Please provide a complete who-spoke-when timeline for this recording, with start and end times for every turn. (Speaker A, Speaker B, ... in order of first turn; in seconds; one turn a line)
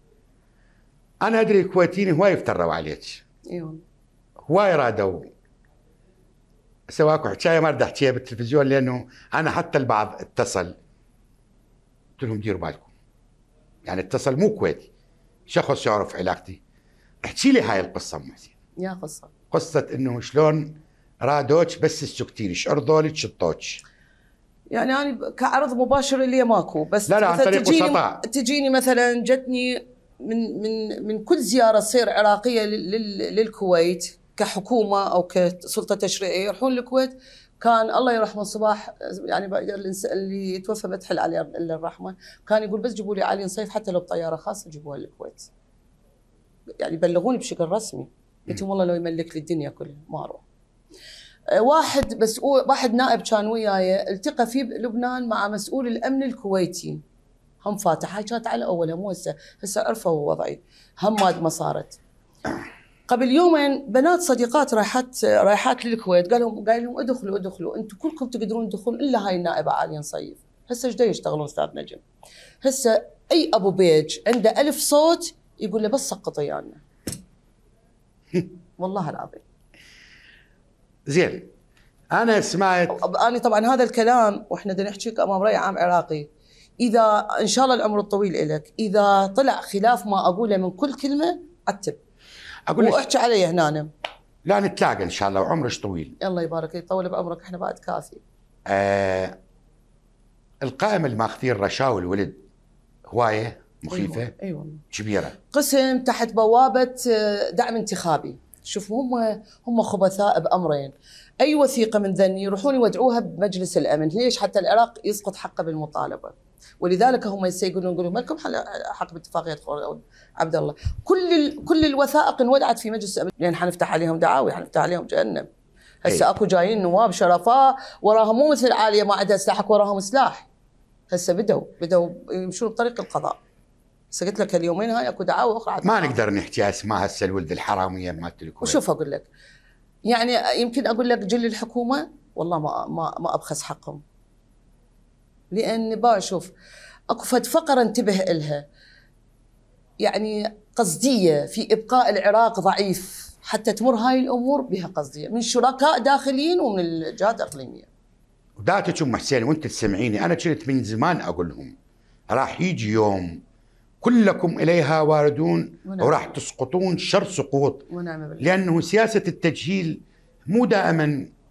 Speaker A: 1.2-3.2
Speaker B: 3.5-3.8
Speaker A: 4.5-5.3
Speaker A: 6.9-10.8
Speaker A: 12.2-12.9
Speaker A: 13.8-14.9
Speaker A: 15.5-16.6
Speaker A: 17.2-18.5
Speaker B: 18.8-19.3
Speaker A: 19.5-23.8
Speaker B: 24.7-45.5
Speaker A: 27.1-28.2
Speaker B: 46.8-50.4
Speaker B: 51.5-57.0
Speaker B: 57.6-62.0
Speaker B: 63.1-72.0
Speaker B: 72.6-76.8
Speaker B: 78.8-79.4
Speaker A: 81.1-81.5
Speaker A: 82.1-83.0
Speaker B: 82.9-86.3
Speaker B: 86.8-92.0
Speaker A: 92.7-93.0
Speaker B: 92.8-93.9
Speaker A: 94.5-96.2
Speaker B: 96.2-98.2
Speaker A: 98.7-99.3
Speaker A: 100.6-102.4
Speaker A: 103.1-104.3
Speaker B: 103.9-104.8
Speaker A: 104.9-105.4
Speaker B: 105.5-125.5
Speaker B: 126.0-130.5
Speaker B: 131.1-133.4
Speaker B: 134.1-136.2
Speaker A: 135.8-138.8
Speaker B: 138.6-139.3
Speaker B: 140.1-144.0
Speaker B: 145.5-146.5
Speaker B: 147.1-148.6
Speaker B: 150.0-157.9
Speaker A: 158.6-161.7
Speaker A: 162.3-163.4
Speaker A: 164.0-167.9
Speaker B: 165.9-166.2
Speaker B: 167.9-168.6
Speaker A: 168.4-171.3